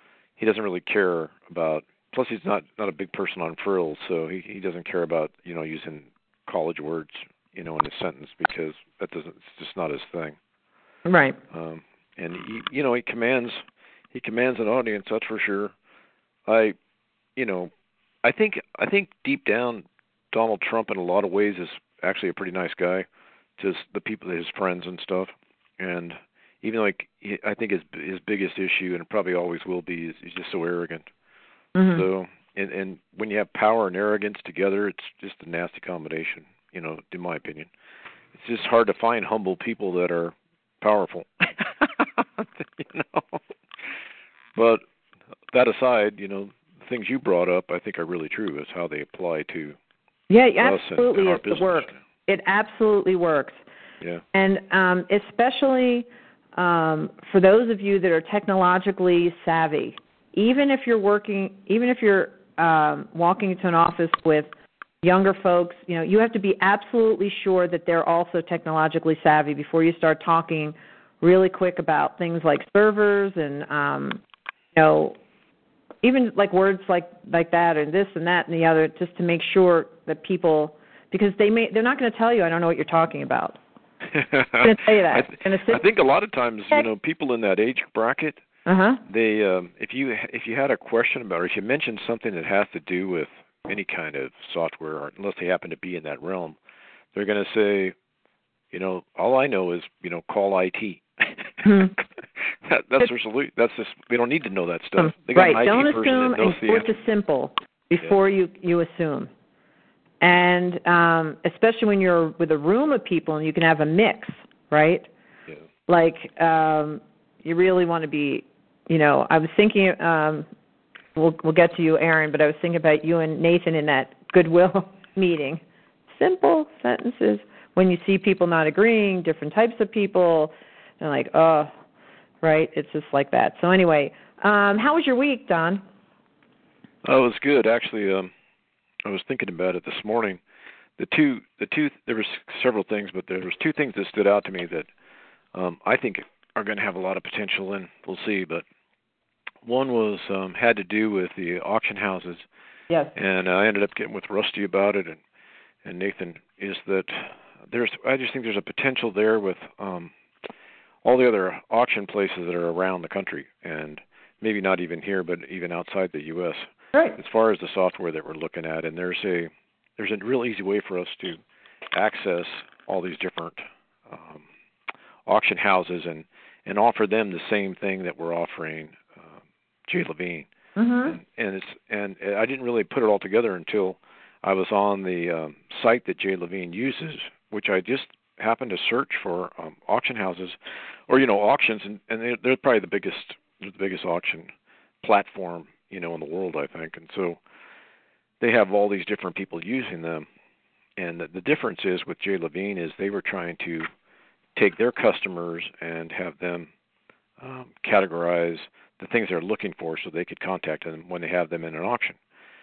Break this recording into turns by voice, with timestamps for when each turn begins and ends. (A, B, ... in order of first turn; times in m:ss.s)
0:00.4-0:10.4 A
0:11.0-0:11.4 B
0:11.5-0:15.7 A
0:16.5-0:16.8 A
0:17.4-0:17.7 A
0:18.2-0:23.0 A
0:23.6-0:31.0 A
0:31.7-0:32.0 B
0:31.9-0:37.7 A
0:38.3-0:43.4 A
0:44.6-0:44.8 A
0:45.5-0:49.8 A
0:50.3-0:53.6 B
0:50.6-0:51.9 A
0:54.3-1:04.5 B
1:05.0-1:14.2 B
1:14.7-1:15.2 B
1:16.0-1:23.6 B
1:24.1-1:28.4 A
1:24.6-1:25.8 B
1:28.6-1:29.0 B
1:29.0-1:36.6 A
1:37.1-1:37.9 A
1:38.7-1:41.9 A
1:41.6-1:41.9 B
1:42.5-1:46.9 A
1:45.0-1:49.3 B
1:50.2-1:55.1 B
1:55.9-2:00.5 B
2:01.2-2:11.7 B
2:12.4-2:15.8 B
2:17.0-2:18.3 A
2:19.0-2:20.4 A
2:21.0-2:24.9 A
2:25.5-2:28.6 A
2:29.6-2:32.4 A
2:32.9-2:33.1 B
2:33.1-2:35.2 A
2:35.8-2:40.1 A
2:41.0-2:51.4 A
2:51.9-2:54.4 A
2:55.2-2:59.3 A
2:59.9-3:00.5 A
3:00.8-3:01.2 B
3:01.0-3:10.6 A
3:11.1-3:14.5 A
3:15.0-3:17.4 A
3:18.4-3:20.3 A
3:21.0-3:23.9 A
3:24.6-3:26.7 A
3:27.4-3:32.2 A